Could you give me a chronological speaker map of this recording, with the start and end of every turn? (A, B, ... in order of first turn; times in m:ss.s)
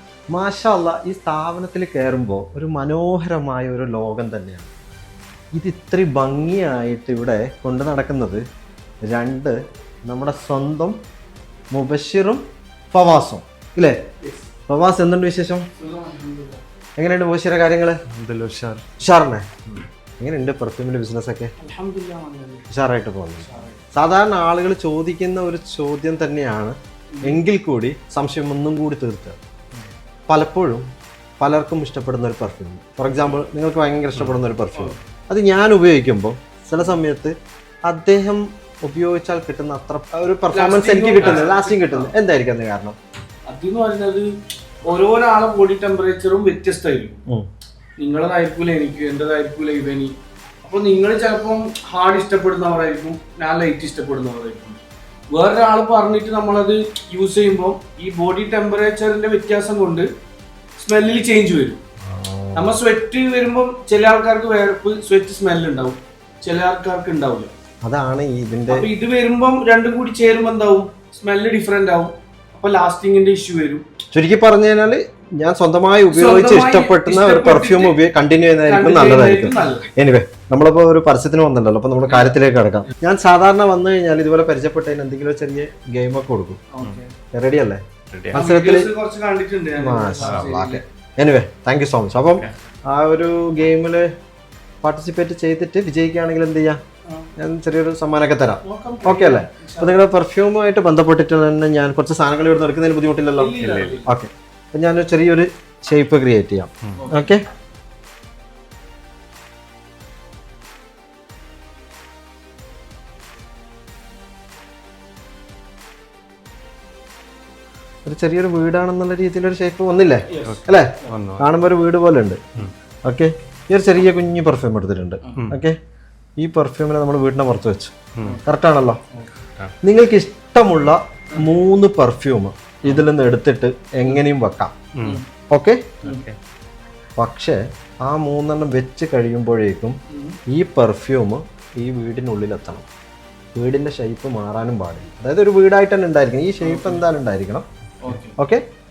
0:00.3-0:04.7 A
0:05.5-0:08.4 A
0:09.0-0:11.0 A
0:11.7-0:14.0 A
0:14.7-0:15.7 A
0:15.8-0:16.6 B
0:17.0-0:18.0 A
0:18.1-0:18.8 C
0:19.0-0:21.5 A
0:21.6-0:22.6 B
0:22.7-0:29.4 A
0:23.4-0:23.8 B
0:27.1-0:27.4 B
0:30.3-0:30.8 A
0:31.4-0:37.3 A
0:37.9-0:43.0 A
0:40.5-0:42.1 B
0:43.5-0:44.3 B
0:44.8-0:47.2 B
0:48.0-1:00.1 B
1:00.8-1:01.8 B
1:02.0-1:02.7 A
1:02.5-1:07.5 B
1:07.8-1:08.9 A
1:08.7-1:13.8 B
1:14.1-1:26.6 A
1:16.1-1:18.0 B
1:18.6-1:19.9 B
1:22.0-1:22.3 B
1:26.7-1:27.1 B
1:27.3-1:28.9 A
1:28.1-1:28.4 C
1:28.3-1:30.8 B
1:29.8-1:34.1 A
1:34.8-1:36.8 A
1:37.4-1:47.4 A
1:38.6-1:40.0 B
1:43.4-1:44.1 B
1:43.6-1:44.0 C
1:47.0-1:47.3 B
1:58.0-2:02.4 A
2:00.3-2:01.2 B
2:00.4-2:01.5 C
2:03.0-2:05.8 A
2:06.4-2:07.9 A
2:08.4-2:09.0 A
2:09.8-2:14.7 A
2:14.9-2:15.2 C
2:15.5-2:15.9 A
2:16.0-2:16.4 C
2:17.2-2:20.0 A
2:20.1-2:20.4 B
2:20.5-2:22.8 A
2:23.6-2:27.6 A
2:26.6-2:27.0 B
2:28.0-2:28.4 B
2:28.4-2:28.6 A